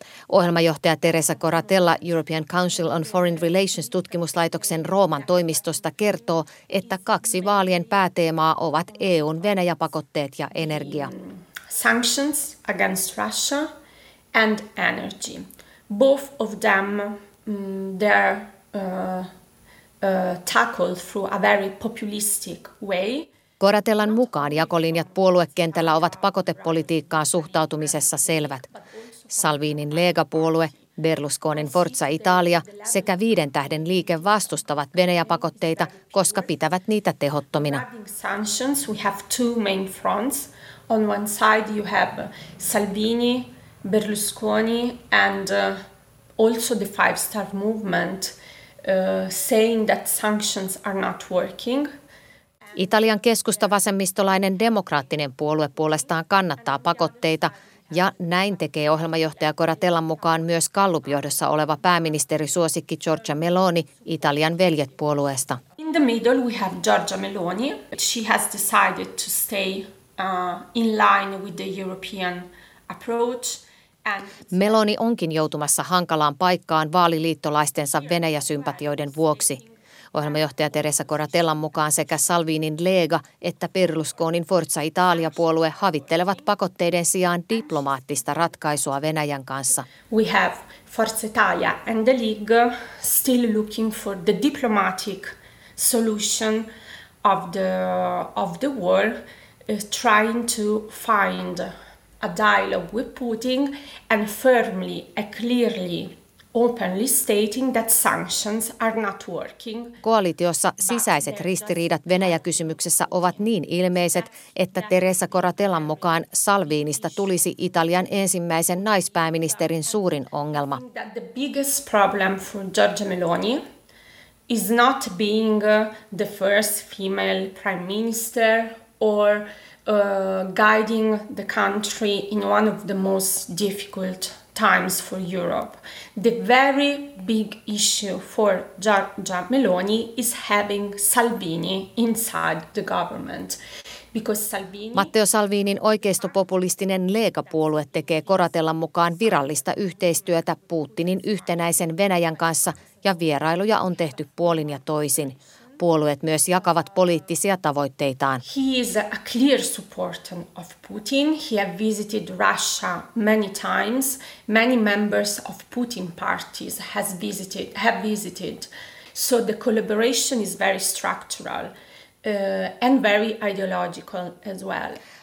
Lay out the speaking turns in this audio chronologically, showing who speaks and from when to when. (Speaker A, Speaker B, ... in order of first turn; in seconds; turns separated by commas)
Speaker A: 0.3-11.1, Speaker B: 10.6-13.7, Speaker B: 14.3-19.3, Speaker B: 20.0-23.3, Speaker A: 23.6-28.6, Speaker B: 24.0-30.9, Speaker A: 29.3-37.8, Speaker B: 31.5-36.6, Speaker B: 37.6-45.8, Speaker B: 46.4-51.9, Speaker A: 52.8-65.6, Speaker B: 53.3-53.6, Speaker B: 56.6-60.2, Speaker B: 65.8-74.8, Speaker A: 74.5-79.6, Speaker B: 78.0-81.4, Speaker A: 80.1-89.9, Speaker B: 85.2-85.8, Speaker B: 90.1-96.7, Speaker B: 97.2-110.0, Speaker A: 110.0-120.8, Speaker B: 110.8-117.5, Speaker B: 119.0-123.6, Speaker B: 124.5-143.6, Speaker B: 144.1-145.1, Speaker A: 144.9-158.4, Speaker B: 158.4-171.7, Speaker B: 172.2-175.0